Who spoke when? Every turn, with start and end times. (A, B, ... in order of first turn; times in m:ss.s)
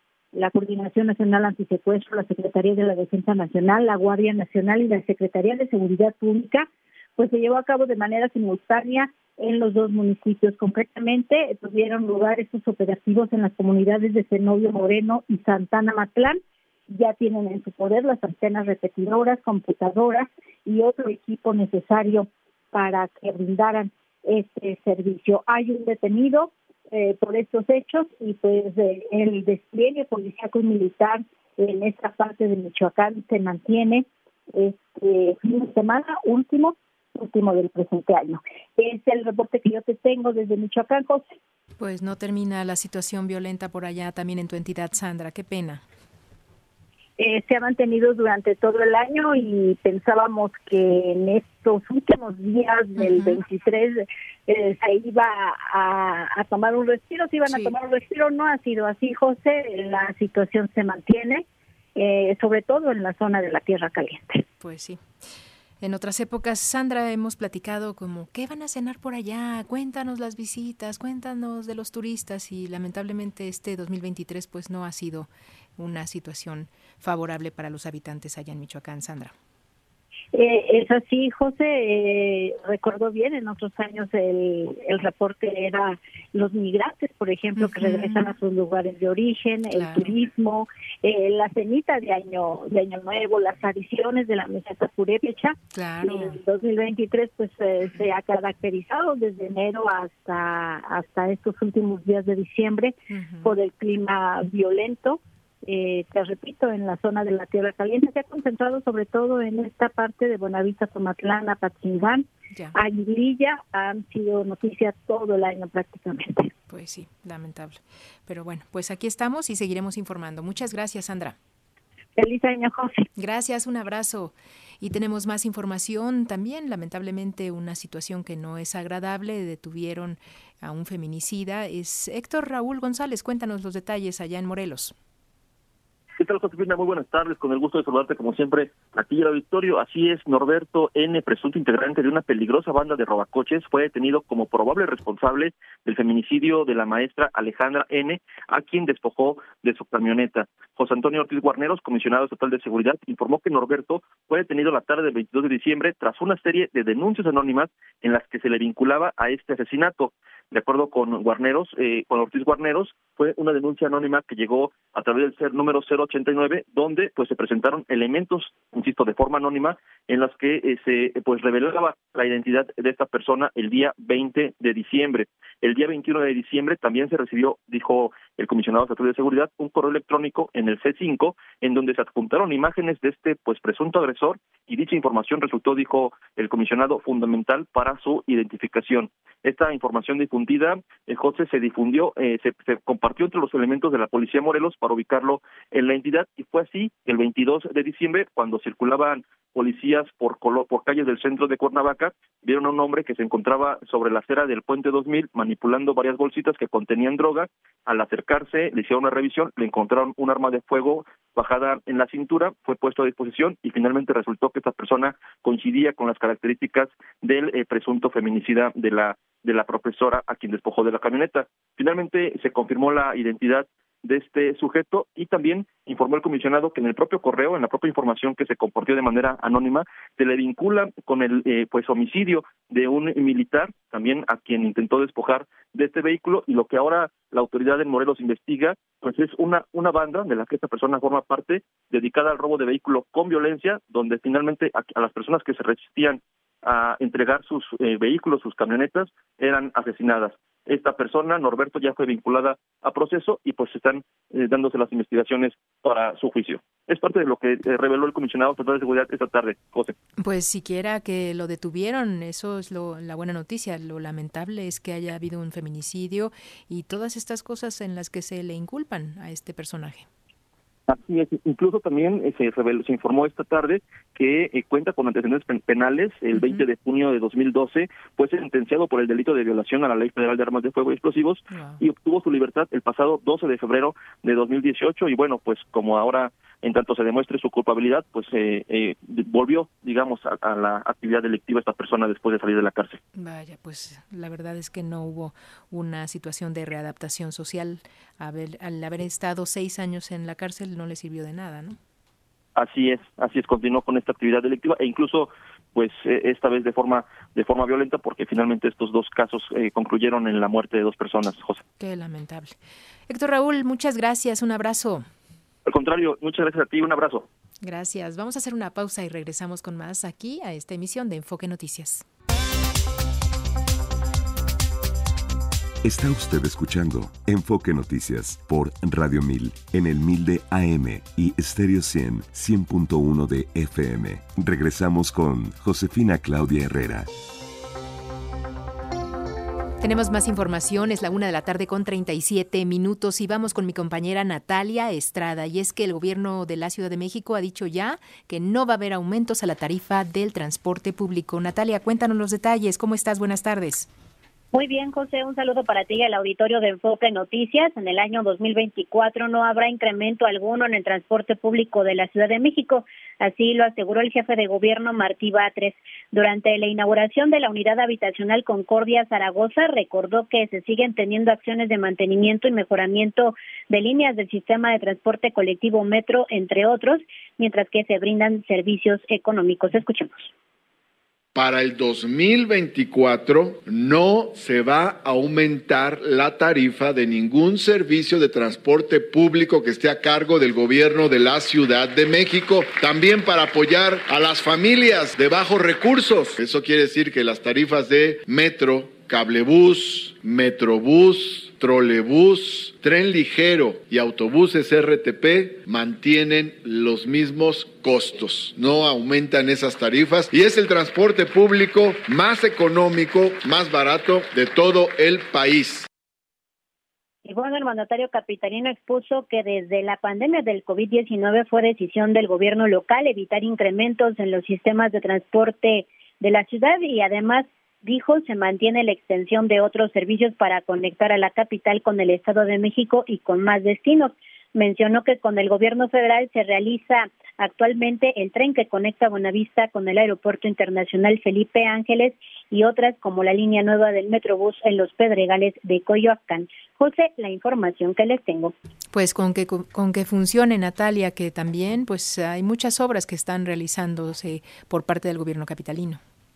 0:00.3-0:41.3 A
0:41.8-0:45.8 B
0:47.2-1:01.4 A
0:53.0-0:53.4 B
0:57.5-0:57.8 B
1:02.0-1:04.4 A
1:04.6-1:05.0 B
1:05.8-1:19.3 B
1:20.3-1:56.5 A
1:27.6-1:28.3 B
1:29.7-1:30.1 B
1:35.7-1:36.4 B
1:43.1-1:43.5 B
1:56.7-2:01.4 B
2:02.2-2:03.1 A
2:03.2-2:15.0 B
2:16.2-4:20.0 C
4:20.2-4:30.1 B
4:30.9-4:53.0 C
4:36.4-4:36.6 B
4:41.5-4:41.8 B
4:53.2-5:01.8 B
5:02.6-5:11.6 C
5:11.8-5:12.6 B
5:13.1-5:15.1 B
5:15.7-5:17.3 C
5:17.6-5:22.0 B
5:25.8-5:37.1 D
5:39.8-5:53.9 B
5:54.5-6:20.3 E
6:21.3-6:55.9 F
6:57.3-7:28.5 E
7:28.9-7:36.0 B